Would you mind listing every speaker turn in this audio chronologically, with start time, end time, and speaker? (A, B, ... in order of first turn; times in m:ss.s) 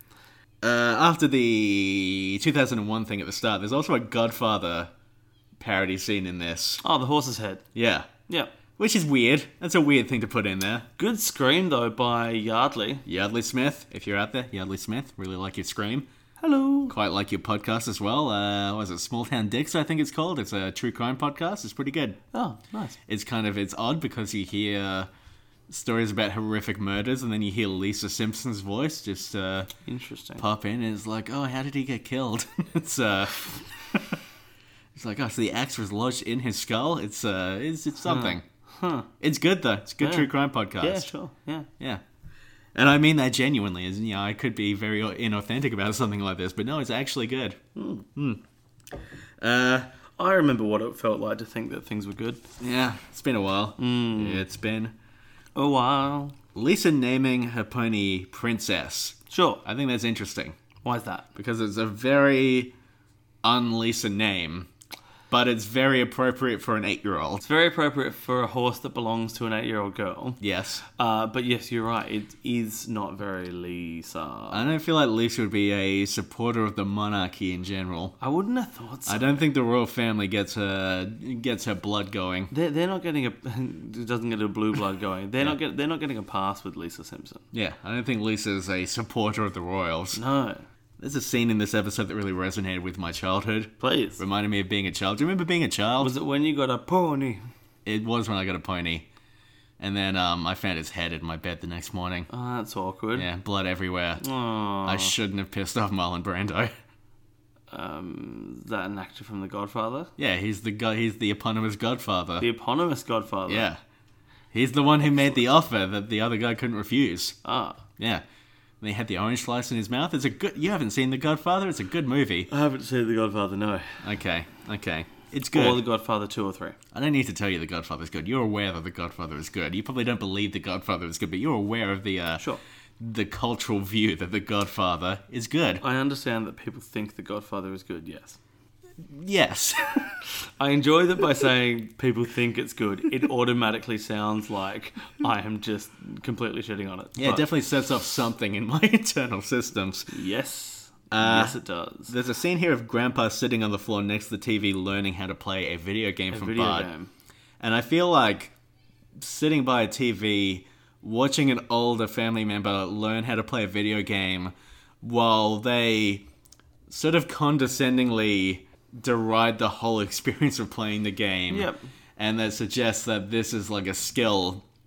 0:00.6-0:04.9 A
0:05.6-0:06.8 A
0:06.8-0:07.6 B
0:07.7-0:08.1 A
0:08.3-0:08.5 B
0:08.8-0:10.9 A
0:11.0-0:13.0 B
0:13.0-0:16.1 A
0:16.4-0:16.9 B
0:16.9-0:22.2 A
0:22.3-0:23.0 B
0:23.1-0:25.1 A
0:25.7-0:29.7 A
0:29.8-0:30.4 B
0:30.4-0:34.0 A
0:34.9-0:38.4 A
0:38.0-0:39.1 B
0:39.2-0:41.1 A
0:40.0-0:41.7 B
0:42.7-0:47.6 A
0:47.7-0:48.1 B
0:48.2-0:48.4 A
0:49.4-0:49.9 A
0:50.2-0:52.4 B
0:52.6-0:54.9 A
0:53.8-0:54.4 B
0:55.6-0:56.4 B
0:56.5-1:00.6 A
0:59.3-0:59.6 B
1:00.8-1:01.3 B
1:01.3-1:02.7 A
1:03.4-1:04.7 A
1:05.3-1:07.4 A
1:07.4-1:10.4 B
1:10.4-1:10.8 A
1:10.9-1:14.6 B
1:14.5-1:18.2 A
1:18.2-1:19.4 B
1:19.0-1:22.5 A
1:22.5-1:27.4 B
1:27.5-1:30.2 A
1:30.1-1:30.6 B
1:31.0-1:36.1 A
1:33.8-1:34.2 B
1:36.0-1:37.4 B
1:37.8-1:39.0 A
1:39.8-1:42.3 A
1:42.3-1:43.3 B
1:43.1-1:44.2 A
1:44.2-1:45.1 B
1:44.8-1:46.7 A
1:47.7-1:50.1 B
1:50.2-1:52.4 A
1:52.4-1:53.7 B
1:53.5-1:53.8 A
1:54.5-1:57.4 A
1:57.4-1:57.8 B
1:58.0-1:58.2 A
1:58.8-2:02.5 A
2:02.5-2:04.0 B
2:04.0-2:05.8 A
2:05.5-2:06.8 B
2:06.9-2:12.4 A
2:13.0-2:15.8 A
2:15.8-2:18.4 B
2:19.0-2:20.2 A
2:20.6-2:27.5 B
2:27.2-2:30.1 A
2:30.1-2:32.1 B
2:31.1-2:31.6 A
2:32.1-2:36.9 A
2:36.3-2:37.1 B
2:37.6-2:38.5 A
2:39.2-2:46.2 A
2:46.9-2:54.6 A
2:51.5-2:51.8 B